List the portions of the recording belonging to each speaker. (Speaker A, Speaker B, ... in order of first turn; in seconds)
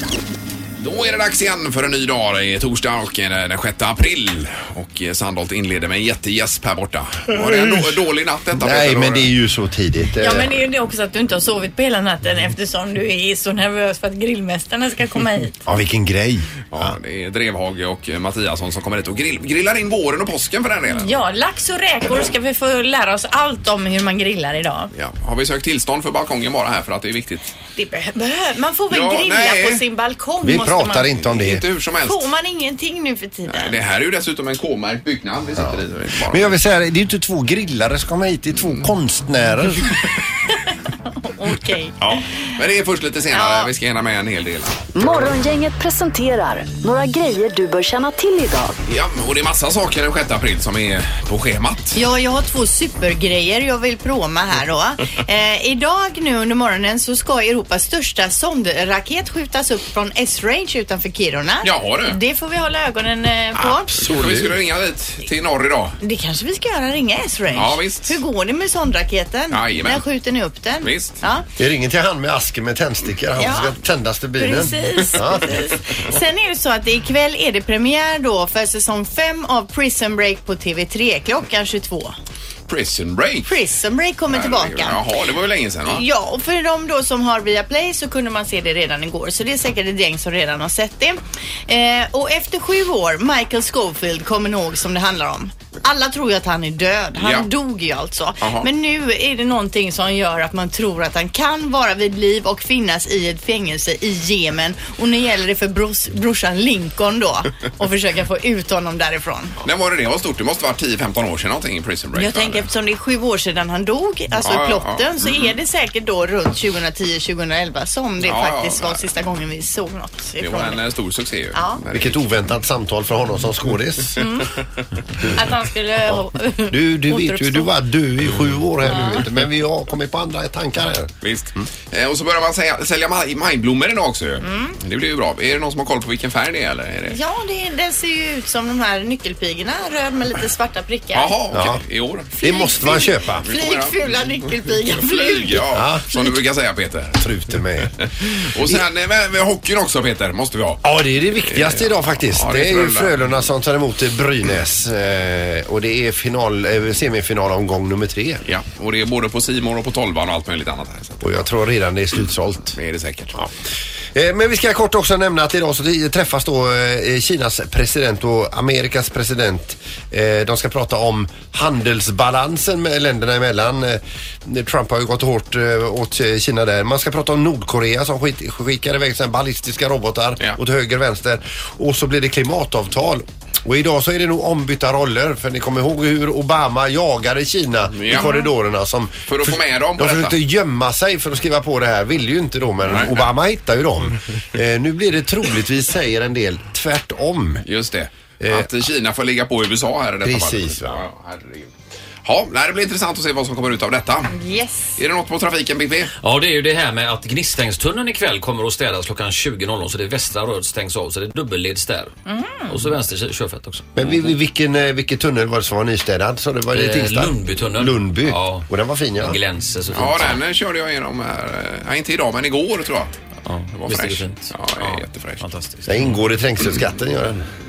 Speaker A: 0.8-9.3, 16.7-21.2, 24.9-27.5, 28.9-29.8, 31.3-32.3, 33.5-36.6, 42.0-44.9, 48.9-52.0, 61.6-62.2, 63.6-66.0, 67.5-68.2, 69.5-70.0, 70.8-71.2, 82.7-83.5, 84.3-86.0, 97.2-97.5, 98.4-98.7, 109.6-112.7, 114.4-115.5, 118.2-119.0, 120.4-122.2, 131.2-137.2, 141.1-142.3, 143.2-144.0, 144.6-147.2, 147.8-150.8, 151.4-153.2, 158.4-161.4, 162.7-163.4, 187.9-188.3, 189.3-190.3, 192.8-193.3, 197.7-201.7, 202.2-204.3, 204.9-206.1, 219.9-223.1, 223.7-225.4
Speaker B: 8.6-10.5, 15.7-16.9, 30.4-31.6, 35.5-40.0, 63.9-64.6, 71.6-75.6, 121.9-124.2, 126.1-131.7, 141.5-141.8, 142.4-143.4, 145.7-146.2, 147.1-147.9, 150.8-158.4, 161.2-162.8, 164.1-197.6, 198.4-198.7, 200.2-201.0, 213.9-219.3, 225.8-227.4
Speaker C: 10.2-15.6, 20.9-24.9, 27.8-31.1, 32.0-33.8, 41.0-42.5, 43.3-43.7, 51.9-63.9, 66.0-71.5, 73.4-73.7, 74.4-82.2, 83.4-85.0, 85.9-109.5, 112.1-120.8, 121.5-121.8, 124.2-124.5, 125.3-127.7, 128.9-129.2, 134.4-134.8, 137.1-141.3, 142.4-145.7, 188.1-188.4, 204.3-205.0, 212.3-212.7
Speaker D: 44.9-48.8
Speaker E: 206.2-212.1, 212.7-214.3, 216.7-218.7, 219.2-220.4, 223.4-226.2